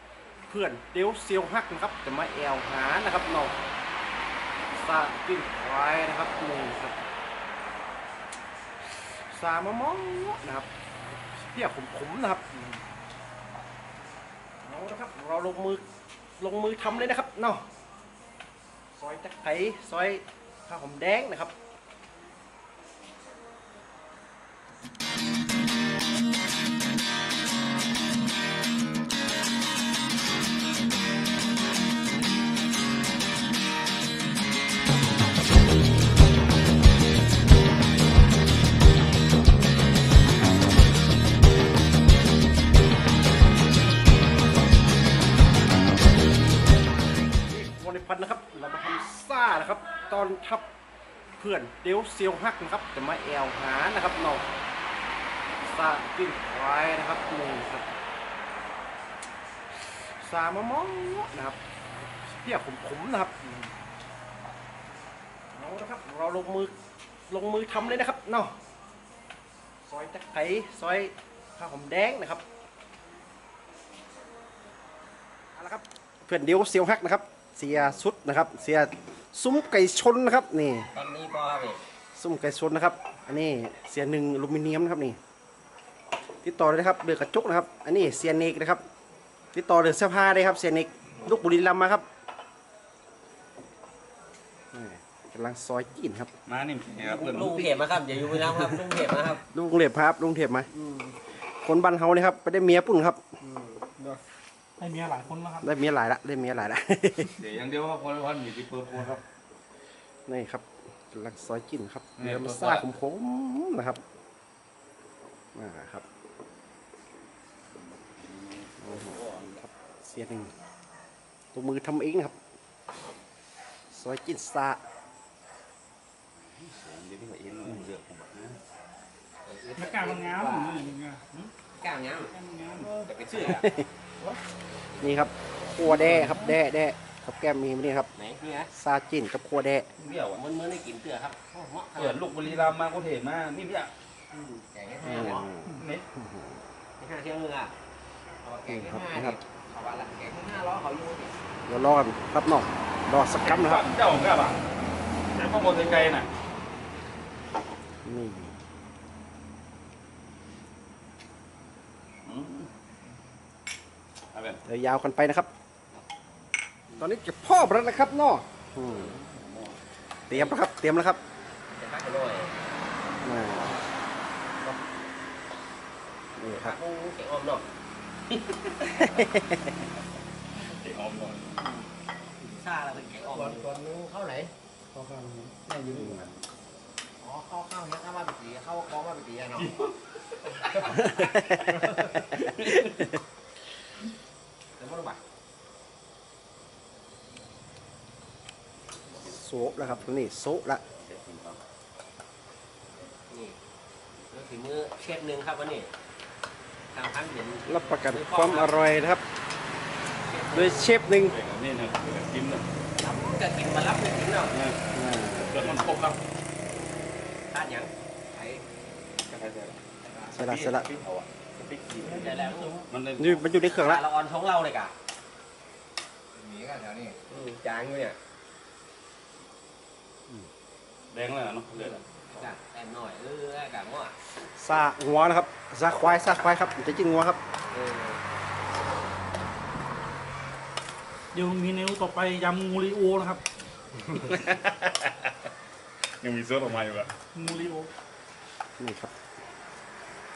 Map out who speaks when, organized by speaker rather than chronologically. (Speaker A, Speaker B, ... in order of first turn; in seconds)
Speaker A: 0.5-3.5, 4.7-7.0, 9.2-12.8, 14.6-15.8, 16.4-17.6, 19.0-21.5, 47.3-50.7, 51.4-54.5, 55.6-57.9, 60.2-63.7, 65.5-66.7, 67.3-68.5, 69.9-72.4, 75.6-80.9, 82.2-85.2, 86.4-88.8, 89.5-92.0, 94.7-96.3, 99.5-100.7, 101.6-103.2, 105.6-107.4, 110.3-114.0, 115.5-116.0, 118.8-120.5, 121.5-122.4, 123.9-124.8, 133.5-133.8, 135.0-138.1, 138.7-139.9, 145.0-146.5, 148.7-149.4, 151.7-153.9, 158.0-158.5, 164.7-165.5, 167.0-169.2, 170.3-171.2, 173.2-173.7, 176.4-176.8, 179.0-179.7, 184.9-186.3, 190.9-191.7, 199.2-200.8, 207.7-209.2, 210.5-211.3, 214.9-215.6, 220.3-220.9, 223.2-224.0, 234.4-237.4, 248.8-249.1
Speaker B: 80.9-81.8, 97.0-99.4, 100.7-101.2, 103.4-104.2, 129.4-130.9, 131.8-132.3, 133.0-133.8, 138.2-138.7, 140.3-142.2, 144.3-145.4, 147.0-147.7, 148.4-151.3, 170.3-170.6, 171.7-172.6, 176.5-177.7, 182.4-184.5, 187.2-189.7, 190.6-192.2, 194.8-195.2, 203.3-203.6, 204.3-205.9, 206.9-208.8, 210.2-211.1, 213.0-214.6, 217.5-218.6, 222.1-222.8, 223.7-224.9, 226.6-228.2, 232.1-234.2, 237.7-238.2
Speaker C: 96.5-97.9, 107.3-109.2, 112.2-112.9, 118.0-119.6, 126.5-128.6, 135.9-136.5, 140.0-140.4, 141.9-143.9, 145.7-146.1, 153.4-154.6, 155.3-156.3, 162.2-162.7, 164.3-164.6, 168.8-169.8, 178.3-179.4, 180.5-181.5, 185.9-186.4, 189.5-191.6, 192.3-193.0, 200.9-201.6, 211.2-212.7, 214.5-216.2, 219.2-223.6, 231.1-232.0, 244.2-245.3, 246.1-247.2
Speaker D: 104.8-105.7, 129.7-131.5, 132.3-133.1, 222.4-222.9, 241.3-243.4, 247.3-247.9
Speaker E: 150.2-151.2, 220.1-220.4, 226.3-227.0